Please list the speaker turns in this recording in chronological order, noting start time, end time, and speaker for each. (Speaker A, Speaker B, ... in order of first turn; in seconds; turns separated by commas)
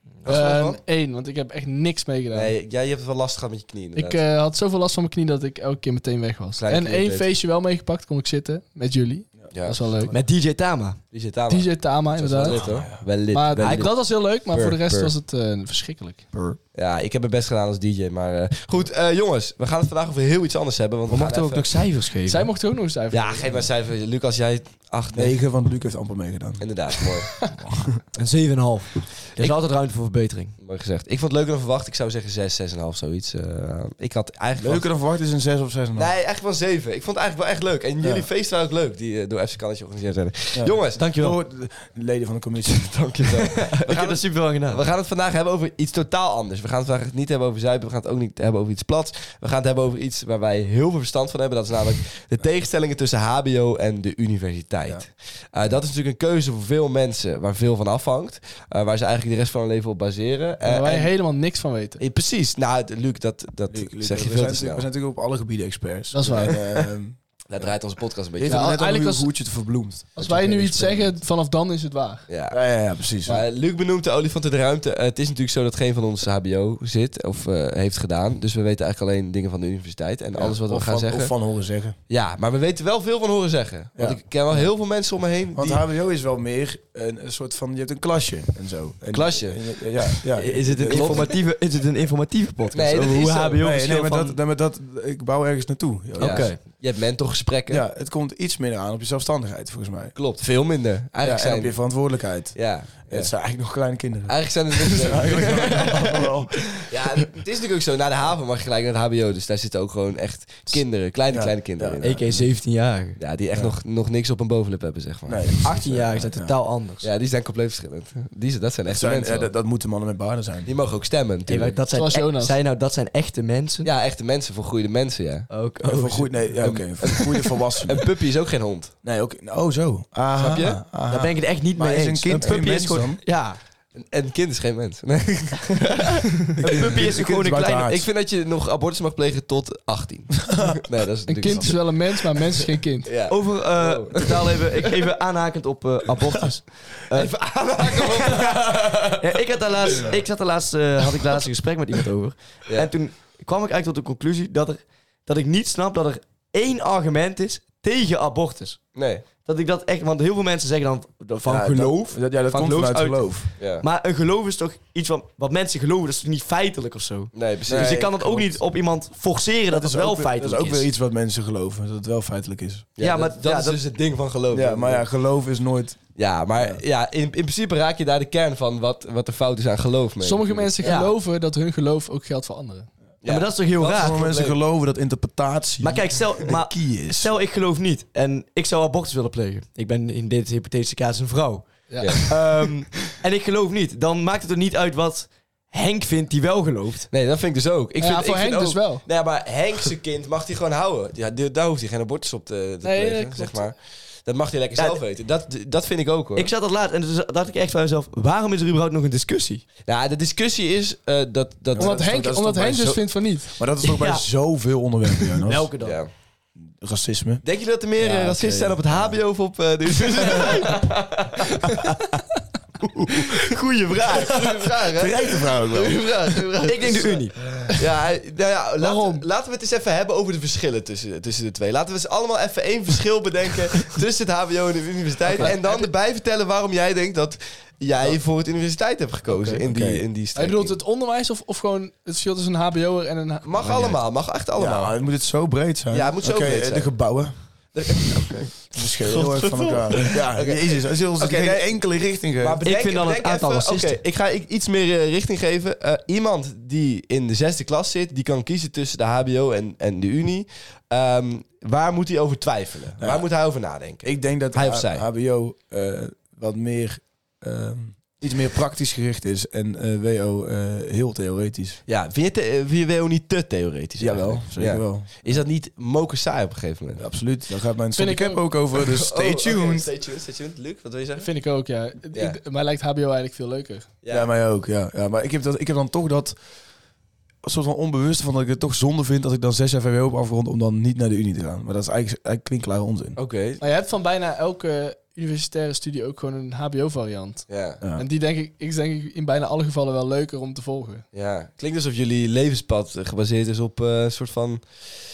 Speaker A: 0.2-0.8, Speaker B: 0.2-2.5, Speaker A: 2.3-4.2, Speaker B: 4.0-10.1, Speaker A: 6.6-7.3, Speaker C: 9.4-10.2, Speaker A: 9.5-9.8, Speaker D: 10.1-11.0, Speaker A: 11.1-15.1, Speaker B: 11.5-12.6, Speaker C: 12.4-13.0, Speaker B: 13.3-16.3, Speaker D: 13.6-13.9, Speaker A: 16.8-21.7, Speaker D: 21.1-22.5, Speaker B: 22.2-23.5, Speaker A: 23.1-25.4, Speaker C: 25.1-26.7, Speaker A: 26.6-27.4, Speaker D: 28.1-30.5, Speaker A: 30.6-34.9, Speaker C: 34.6-36.1, Speaker A: 36.0-41.1, Speaker C: 38.0-38.3, Speaker C: 40.5-43.0, Speaker D: 41.0-41.4, Speaker A: 42.6-61.1, Speaker D: 43.6-44.8, Speaker B: 60.6-62.0, Speaker A: 62.0-64.9, Speaker C: 63.7-67.7, Speaker B: 66.1-66.6, Speaker A: 66.2-66.9, Speaker A: 67.5-68.7, Speaker C: 68.3-71.2, Speaker B: 68.5-69.3, Speaker B: 70.2-72.3, Speaker A: 72.3-81.3, Speaker C: 72.5-73.4, Speaker C: 80.3-82.0, Speaker A: 82.1-85.8, Speaker C: 84.0-84.7, Speaker C: 85.5-91.3, Speaker A: 89.1-91.3, Speaker D: 90.4-94.4, Speaker A: 92.7-93.6, Speaker C: 93.6-96.5, Speaker D: 96.2-96.6, Speaker A: 96.2-97.8, Speaker C: 97.7-100.2, Speaker A: 100.2-101.8, Speaker C: 101.2-106.9, Speaker A: 102.5-103.3, Speaker A: 104.3-112.5, Speaker C: 111.3-112.0, Speaker D: 112.0-113.2, Speaker A: 113.2-115.6, Speaker C: 115.3-116.5, Speaker D: 115.6-117.1, Speaker A: 117.0-119.5, Speaker C: 118.9-120.7, Speaker A: 120.7-121.8, Speaker D: 121.5-123.9, Speaker B: 121.9-122.6, Speaker A: 123.8-125.5, Speaker D: 125.5-127.4, Speaker C: 125.8-128.0, Speaker A: 126.6-127.3, Speaker A: 127.9-128.9, Speaker C: 129.0-133.2, Speaker A: 130.4-130.8, Speaker D: 131.1-133.6, Speaker A: 133.9-145.1, Speaker D: 136.6-137.9, Speaker C: 136.6-138.0, Speaker C: 140.5-140.8, Speaker B: 141.3-143.2, Speaker D: 143.3-147.3, Speaker A: 147.1-149.4, Speaker D: 147.9-170.9, Speaker A: 152.7-152.9, Speaker A: 158.9-159.2, Speaker C: 161.4-163.5, Speaker A: 163.6-163.9, Speaker A: 167.3-168.1, Speaker C: 167.7-168.5, Speaker C: 169.7-172.9, Speaker A: 173.0-175.1, Speaker D: 173.0-173.8, Speaker C: 174.5-176.1, Speaker A: 176.2-181.0, Speaker B: 180.2-182.9, Speaker D: 180.8-181.2, Speaker A: 183.2-184.6, Speaker D: 183.3-184.2, Speaker C: 183.8-187.3, Speaker D: 185.8-197.1, Speaker B: 191.9-193.1, Speaker A: 192.0-192.3, Speaker A: 197.1-206.5, Speaker B: 198.0-199.1, Speaker B: 202.8-203.7, Speaker D: 206.4-209.6, Speaker A: 209.9-212.2, Speaker C: 211.7-215.7, Speaker B: 211.8-213.6, Speaker D: 213.8-214.3, Speaker D: 215.2-216.0, Speaker A: 215.8-216.1, Speaker C: 216.8-217.4, Speaker A: 217.4-221.4, Speaker D: 218.0-218.8, Speaker C: 218.8-219.2, Speaker D: 220.1-221.5, Speaker D: 222.8-224.4, Speaker A: 223.1-240.8, Speaker C: 224.9-226.4, Speaker D: 226.7-227.4, Speaker B: 228.8-229.2, Speaker D: 235.3-235.9, Speaker D: 239.3-239.6, Speaker C: 239.7-240.0, Speaker B: 240.4-243.5, Speaker A: 243.4-245.0, Speaker C: 244.6-247.3, Speaker A: 245.9-246.9, Speaker A: 247.7-251.7, Speaker C: 248.7-252.6, Speaker A: 252.4-265.1, Speaker D: 252.6-254.0, Speaker C: 264.0-271.8, Speaker A: 271.9-277.1, Speaker C: 274.0-275.4, Speaker C: 277.0-279.9, Speaker B: 278.0-278.4, Speaker A: 278.8-281.3, Speaker B: 281.2-283.9, Speaker A: 282.1-282.4, Speaker A: 284.0-284.3, Speaker C: 284.1-286.4, Speaker C: 287.4-293.2, Speaker A: 293.2-293.6, Speaker B: 293.6-301.1, Speaker A: 297.5-297.8, Speaker A: 301.1-304.9